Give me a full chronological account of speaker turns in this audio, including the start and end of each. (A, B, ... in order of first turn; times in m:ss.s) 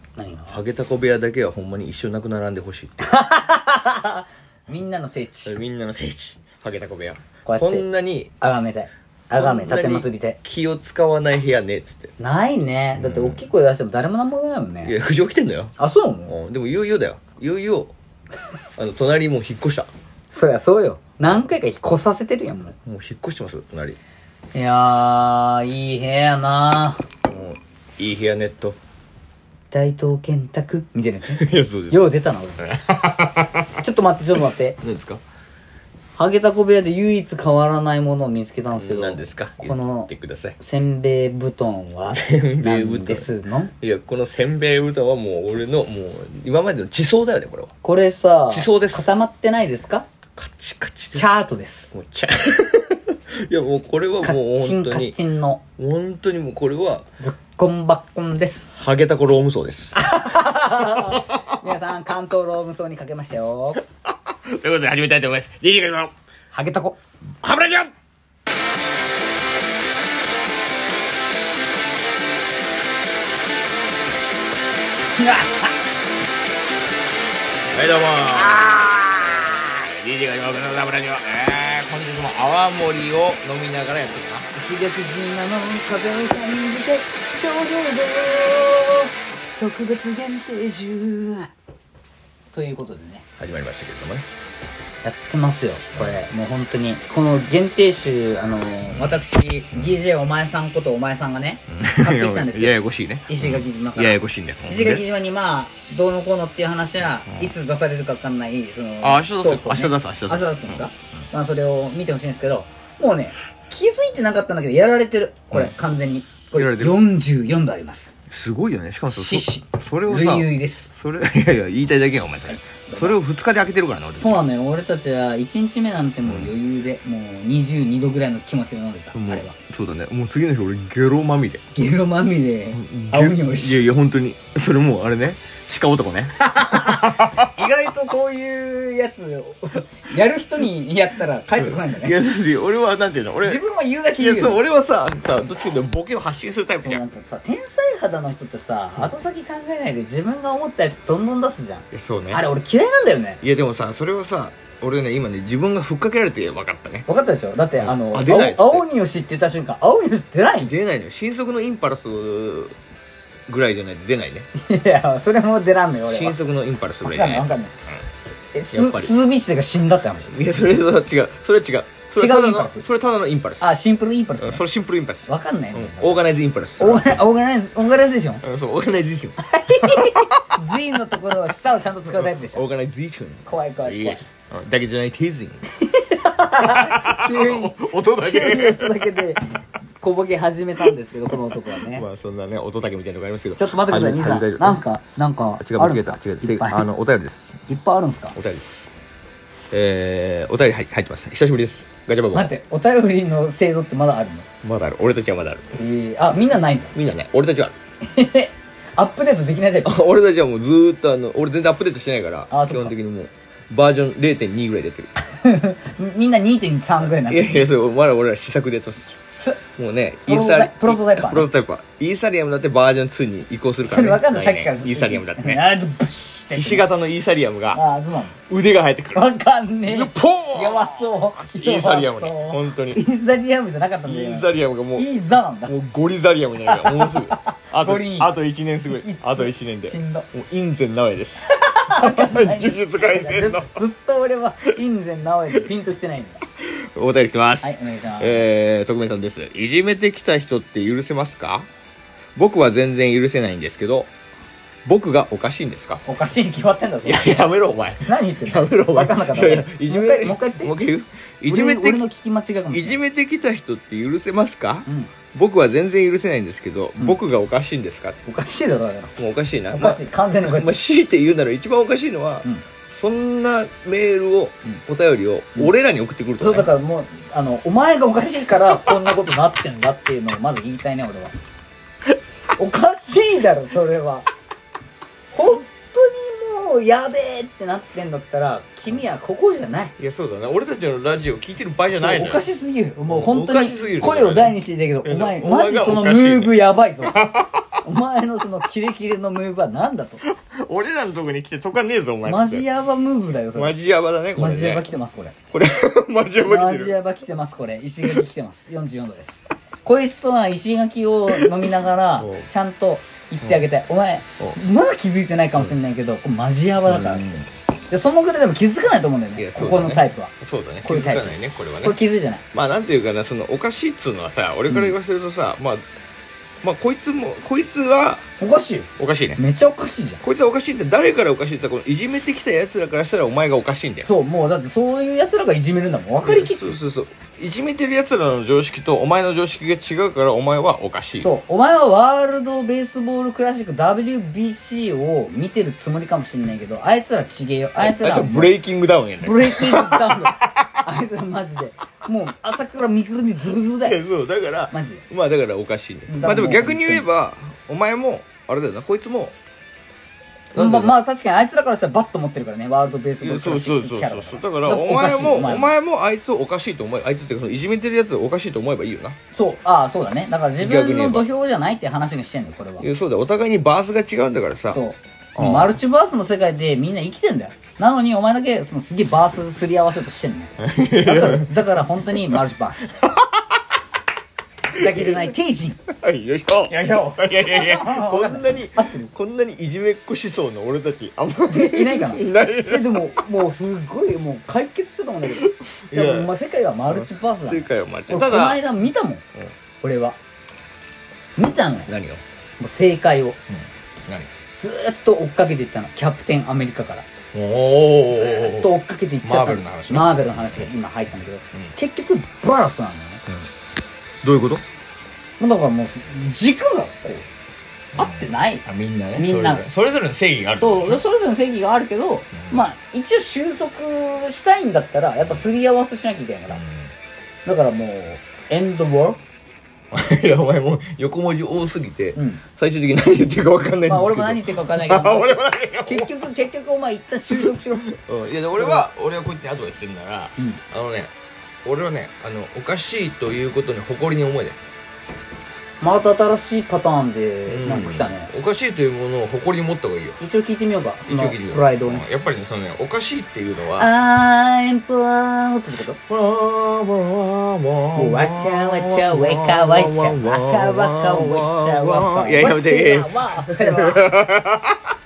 0:00.2-0:00.6 A
0:00.5-0:03.1 B
0:03.0-0:05.6 A
0:05.5-0:08.3 B
0:07.5-0:07.8 A
0:08.4-0:10.4 A
0:09.4-0:12.1 B
0:12.2-0:15.0 A
0:13.0-0:13.4 B
0:14.8-0:17.9 B
0:15.8-0:16.3 A
0:18.8-0:19.9 B
0:20.3-0:22.8 A
0:22.9-0:24.0 B
0:24.5-0:27.0 A
0:27.3-0:28.8 B
0:29.7-0:32.7 A
0:31.3-0:32.1 B
0:32.6-0:33.8 B
0:33.8-0:34.8 A
0:34.8-0:35.2 B
0:36.2-0:43.7 A
0:38.7-0:40.6 B
0:42.1-0:43.3 B
0:43.8-0:47.7 B
0:47.8-0:50.0 A
0:48.5-0:49.1 B
0:50.4-0:51.2 B
0:51.2-0:51.9 A
0:51.9-0:55.2 B
0:54.2-0:55.6 A
0:55.8-0:57.0 B
0:57.2-0:58.7 A
0:58.7-1:00.0 B
1:00.0-1:03.8 A
1:00.9-1:01.4 B
1:04.1-1:06.1 B
1:06.5-1:07.0 A
1:07.4-1:07.9 B
1:15.2-1:15.7 A
1:17.7-1:24.5 B
1:24.5-1:31.5 A
1:32.5-1:33.2 A
1:33.4-1:34.3 B
1:35.0-1:58.1 A
1:41.7-1:45.0 B
1:49.0-1:50.9 B
1:56.5-1:57.0 B
1:58.3-2:04.4 B
1:59.1-2:00.9 A
2:02.5-2:03.2 A
2:04.2-2:09.5 A
2:06.2-2:06.5 B
2:09.1-2:11.6 B
2:11.8-2:13.8 A
2:12.7-2:17.5 B
2:16.4-2:22.2 A
2:21.6-2:23.6 B
2:23.4-2:24.6 A
2:24.1-2:27.0 B
2:26.8-2:33.4 A
2:31.9-2:32.4 B
2:33.4-2:37.1 B
2:37.1-2:40.7 A
2:37.8-2:38.8 B
2:40.6-2:42.8 B
2:43.5-2:44.5 B
2:44.6-2:46.4 A
2:46.1-2:47.5 B
2:47.0-2:47.7 A
2:48.5-2:50.3 A
2:48.7-2:49.1 B
2:50.3-2:53.8 B
2:52.2-2:52.8 A
2:53.6-2:54.6 A
2:54.4-2:57.2 B
2:55.3-2:56.3 A
2:56.8-2:58.4 A
2:58.4-3:00.6 B
2:59.4-3:02.7 A
3:02.2-3:05.6 B
3:03.5-3:04.2 A
3:05.8-3:09.4 A
3:06.6-3:09.2 B
3:10.0-3:12.1 A
3:11.8-3:14.8 B
3:13.6-3:16.9 A
3:15.6-3:17.7 B
3:17.7-3:18.4 A
3:18.4-3:18.9 B
3:19.7-3:22.5 B
3:22.3-3:24.5 A
3:24.6-3:25.7 B
3:25.7-3:26.9 A
3:26.9-3:27.8 B
3:28.0-3:30.0 A
3:29.8-3:35.1 B
3:32.5-3:32.9 A
3:35.4-3:37.7 A
3:37.0-3:39.2 B
3:39.3-3:39.6 A
3:39.8-3:45.7 B
3:40.3-3:41.5 A
3:43.8-3:46.8 A
3:46.5-3:47.8 B
3:47.7-3:48.4 A
3:48.5-3:49.3 B
3:49.1-3:55.7 A
3:49.9-3:53.0 B
3:54.0-3:55.1 B
3:55.7-4:03.8 B
3:56.7-3:58.3 A
3:58.9-4:00.3 A
4:01.5-4:06.4 A
4:06.6-4:11.7 B
4:07.6-4:08.4 A
4:12.4-4:14.1 B
4:14.8-4:16.0 B
4:16.0-4:17.5 A
4:17.0-4:22.0 B
4:18.0-4:20.8 A
4:21.5-4:23.0 A
4:22.7-4:28.2 B
4:24.9-4:25.1 A
4:28.3-4:29.2 A
4:29.2-4:36.7 B
4:29.7-4:30.8 A
4:36.4-4:41.3 A
4:42.6-4:44.3 A
4:45.3-4:49.9 A
4:50.0-4:52.4 B
4:52.0-5:00.2 A
4:53.1-4:57.6 B
5:00.2-5:02.6 B
5:02.3-5:03.8 A
5:03.5-5:04.9 B
5:04.4-5:05.4 A
5:05.5-5:07.0 B
5:06.4-5:17.4 A
5:11.3-5:12.5 B
5:16.9-5:17.5 B
5:17.9-5:20.3 A
5:19.4-5:22.0 B
5:20.8-5:22.4 A
5:22.5-5:25.8 B
5:26.6-5:28.2 B
5:28.4-5:30.2 A
5:29.0-5:29.4 B
5:30.2-5:34.1 B
5:34.0-5:36.7 A
5:36.2-5:41.3 B
5:41.2-5:48.6 A
5:47.8-5:50.8 B
5:49.2-5:54.0 A
5:53.8-5:59.3 B
5:54.7-5:55.0 A
5:56.1-5:57.1 A
6:00.5-6:01.0 B
6:00.6-6:05.7 A
6:03.2-6:09.2 B
6:09.3-6:12.9 A
6:10.6-6:11.3 B
6:12.8-6:14.8 B
6:14.7-6:23.0 A
6:15.4-6:15.8 B
6:20.6-6:21.6 B
6:22.1-6:22.4 B
6:23.0-6:23.6 B
6:24.7-6:25.8 A
6:24.8-6:25.3 B
6:25.9-6:33.2 B
6:26.7-6:29.1 A
6:31.5-6:39.2 A
6:35.3-6:36.3 B
6:36.9-6:38.6 B
6:39.8-6:40.2 A
6:41.4-6:41.9 A
6:41.9-6:42.2 B
6:42.6-6:43.4 A
6:43.5-6:44.3 B
6:44.6-6:47.1 A
6:47.3-6:48.7 B
6:48.1-6:53.2 A
6:49.2-6:50.7 B
6:54.2-6:54.6 B
6:55.4-6:57.3 A
6:58.0-6:58.6 A
6:58.0-7:01.0 B
6:59.2-6:59.6 A
7:00.6-7:06.6 A
7:02.4-7:02.6 B
7:06.5-7:06.8 B
7:07.4-7:09.2 A
7:09.9-7:16.1 B
7:12.2-7:12.4 A
7:13.9-7:17.9 A
7:17.3-7:21.1 B
7:21.6-7:24.6 B
7:25.8-7:28.3 A
7:27.5-7:30.2 B
7:30.2-7:32.0 A
7:31.1-7:33.9 B
7:33.8-7:36.0 A
7:36.1-7:44.9 B
7:38.0-7:44.1 A